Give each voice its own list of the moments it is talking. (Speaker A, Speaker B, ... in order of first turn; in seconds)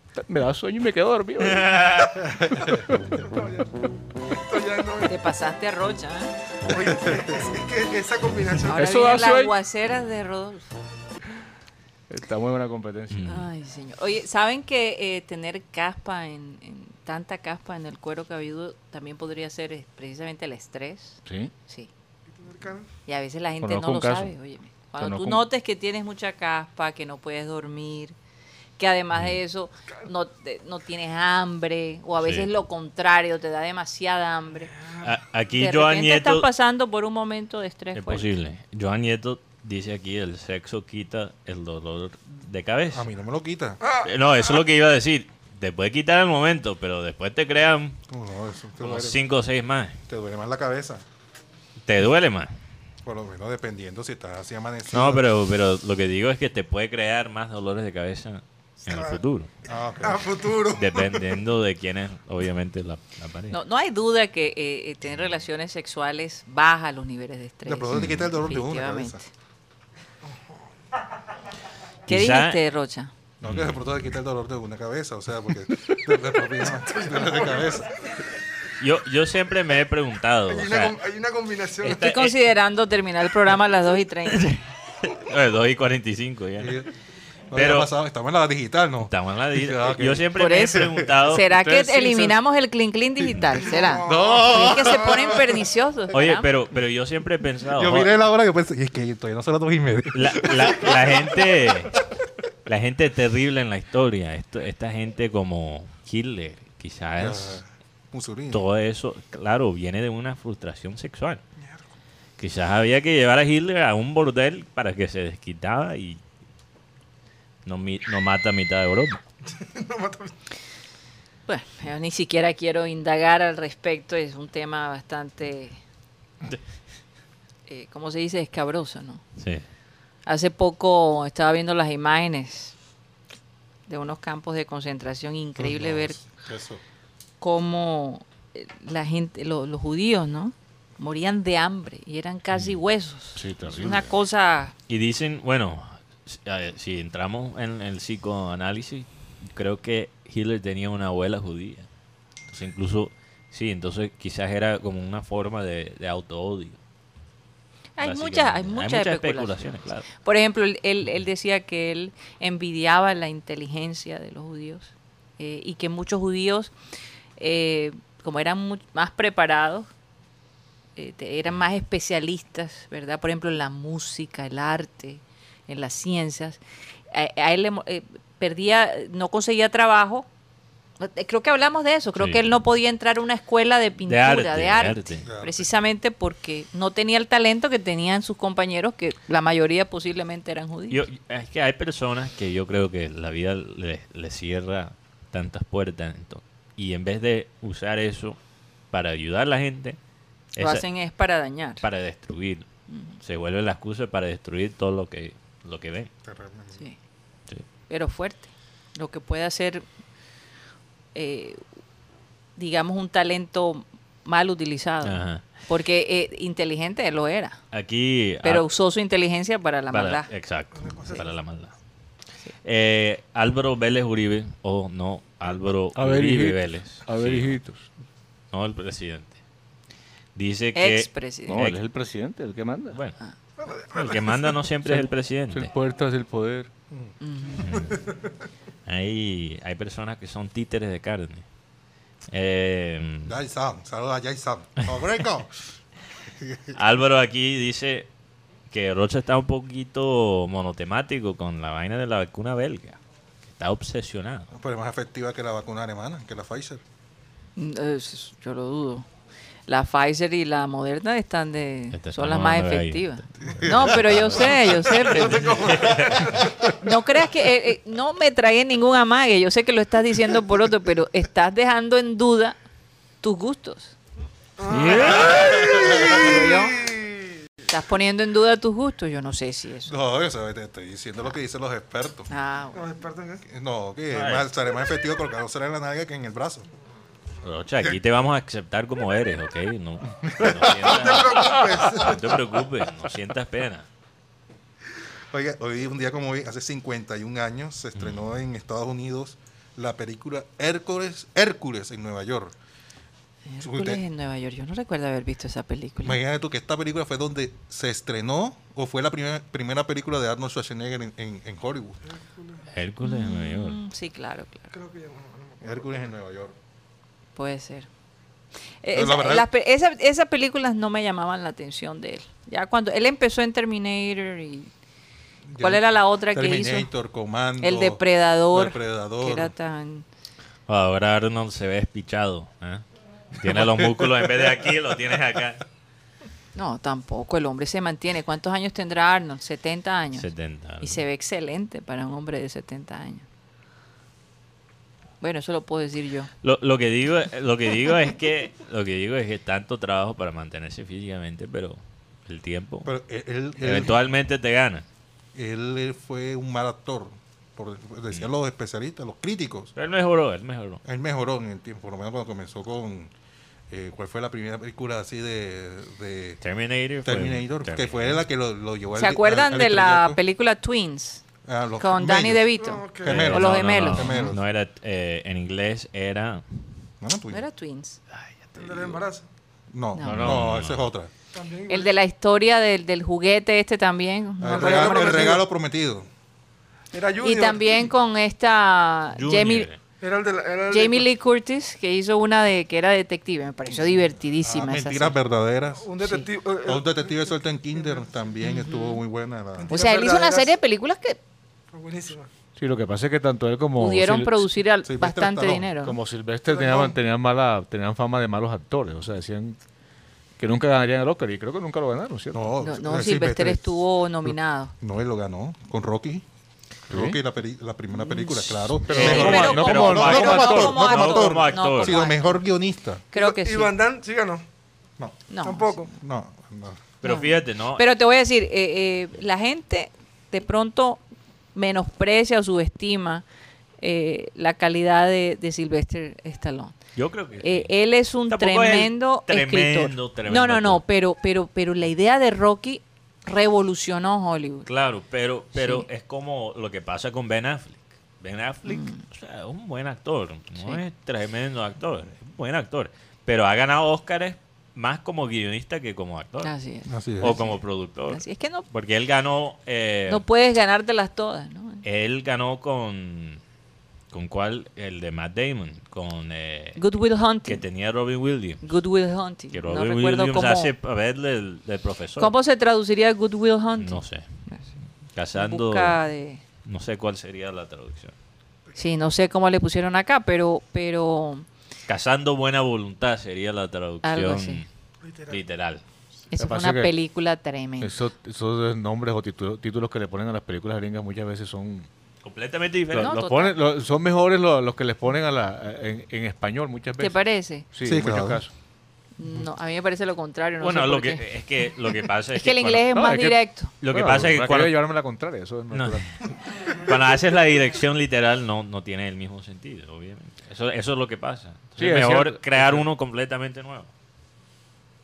Speaker A: 0.1-1.9, 8.7-9.5, 12.1-13.4, 21.3-21.5, 23.6-24.3, 25.0-25.4, 143.4-144.1, 225.9-227.9, 231.5-233.0, 234.8-236.7, 274.7-275.1, 402.6-404.5, 405.8-409.6, 410.4-412.5, 416.9-417.2, 418.9-420.8, 486.4-486.9, 487.8-491.9, 492.9-498.5, 502.9-506.1, 511.8-512.9
Speaker B: 1.6-2.1, 13.1-13.4, 32.2-32.5, 35.0-36.5, 38.0-43.1, 44.0-48.0, 48.8-50.0, 51.9-52.5, 54.9-59.5, 60.8-63.6, 72.1-72.6, 73.4-73.8, 78.8-81.0, 81.8-82.3, 84.3-86.8, 87.5-87.9, 89.1-92.0, 96.1-98.1, 100.1-102.0, 102.7-107.6, 108.5-111.4, 112.4-116.2, 117.7-119.2, 129.4-129.7, 144.9-151.9, 152.5-156.8, 158.0-160.1, 182.2-182.4, 184.1-185.3, 190.9-198.4, 198.9-200.0, 200.6-200.8, 201.8-202.7, 203.2-206.1, 215.0-215.4, 217.7-218.7, 219.9-221.7, 222.6-227.6, 228.5-229.4, 230.3-231.8, 232.9-233.2, 233.9-235.7, 237.6-238.0, 238.9-241.4, 242.3-243.4, 246.8-248.1, 248.7-254.5, 261.9-266.4, 274.8-275.4, 284.1-284.5, 287.4-293.9, 312.7-313.8, 330.7-335.6, 340.1-341.0, 346.4-352.9, 353.6-354.9, 359.8-360.8, 366.4-368.2, 373.1-376.7, 378.1-379.0, 380.0-380.9, 389.1-389.8, 418.9-422.0, 427.0-427.8, 437.0-437.7, 438.3-440.8, 444.7-456.5, 457.2-460.2, 461.8-463.4, 464.1-466.8, 467.4-468.8, 469.5-472.3, 473.8-474.2, 475.1-476.0, 476.6-478.1, 481.9-484.7, 485.3-485.8, 492.2-493.1, 500.6-502.9, 503.8-504.8, 505.7-513.9
Speaker C: 3.1-3.7, 4.3-5.2, 6.7-9.0, 22.4-22.9, 43.8-44.1, 58.9-59.2, 60.0-61.2, 76.9-77.6, 80.5-82.0, 93.6-95.5, 119.5-120.3, 220.8-221.3, 233.6-234.5, 237.7-238.1, 265.0-266.5, 274.6-276.4, 282.8-283.4, 290.7-292.4, 312.1-312.6, 314.7-316.0, 372.6-373.3, 378.6-379.3, 381.3-381.9, 384.4-385.4, 386.9-387.9, 390.0-391.1, 395.8-397.3, 399.6-400.5, 401.7-402.3, 406.5-407.0, 423.1-424.4, 425.4-425.9, 485.0-485.4
Speaker D: 5.0-6.3, 8.7-10.7, 13.2-21.9, 23.1-28.1, 28.8-34.7, 35.6-38.3, 63.5-69.3, 72.1-73.1, 81.8-84.6, 90.3-96.5, 121.5-125.8, 127.7-129.2, 130.3-132.8, 133.9-136.2, 137.4-144.7, 158.0-166.7, 167.4-169.9, 171.0-176.6, 177.1-180.3, 181.0-191.0, 200.6-201.8, 202.9-203.2, 207.9-209.8, 211.1-211.6, 212.6-217.6, 218.4-220.3, 230.8-231.6, 237.2-237.8, 257.6-259.1, 259.7-265.6, 266.7-272.6, 273.2-274.0, 275.1-275.4, 276.0-276.8, 277.7-280.0, 282.3-282.9, 303.5-306.2, 313.0-314.7, 317.4-317.9, 318.8-324.7, 325.6-326.9, 327.6-330.1, 336.6-340.3, 340.8-343.3, 345.2-346.3, 369.0-371.2, 371.8-374.3, 377.3-378.0, 379.9-380.4, 381.7-385.4, 387.2-389.7, 390.7-395.2, 396.0-396.3, 398.4-399.0, 399.7-401.2, 403.8-406.0, 412.6-414.7, 417.9-422.4, 423.1-423.7, 425.3-425.9, 427.0-431.0, 431.6-433.2, 433.8-436.8, 437.4-444.7, 445.5-445.9, 448.7-449.0, 456.4-458.7, 460.1-461.8, 466.8-467.6, 468.6-470.7, 472.2-474.7, 475.4-476.4, 478.8-481.5, 484.0-484.6, 486.3-488.0, 493.0-493.6, 497.0-497.7, 499.2-501.3, 502.3-503.7
Speaker E: 42.9-43.8, 48.1-49.2, 50.1-51.0, 53.0-55.2, 59.7-60.4, 67.7-69.2, 73.4-77.9, 86.6-86.9, 87.5-91.2, 94.1-95.4, 97.7-101.4, 107.2-108.7, 135.6-136.8, 185.2-185.7, 206.2-206.8, 243.3-245.8, 246.4-246.8, 254.5-256.8, 263.4-264.3, 275.1-276.9, 279.9-282.3, 283.5-286.7, 290.2-292.2, 295.3-302.6, 303.6-304.0, 306.0-312.0, 315.6-316.5, 318.9-319.5, 325.5-329.5, 333.6-334.1, 352.9-354.0, 355.4-359.7, 360.8-363.1, 363.7-366.4, 367.1-370.2, 371.5-372.5, 373.0-374.4, 377.0-377.4, 379.7-381.1, 384.4-386.1, 394.4-395.9, 396.6-399.7, 404.9-405.7, 412.3-416.2, 416.9-423.1, 425.9-426.8, 456.9-457.4, 497.8-498.4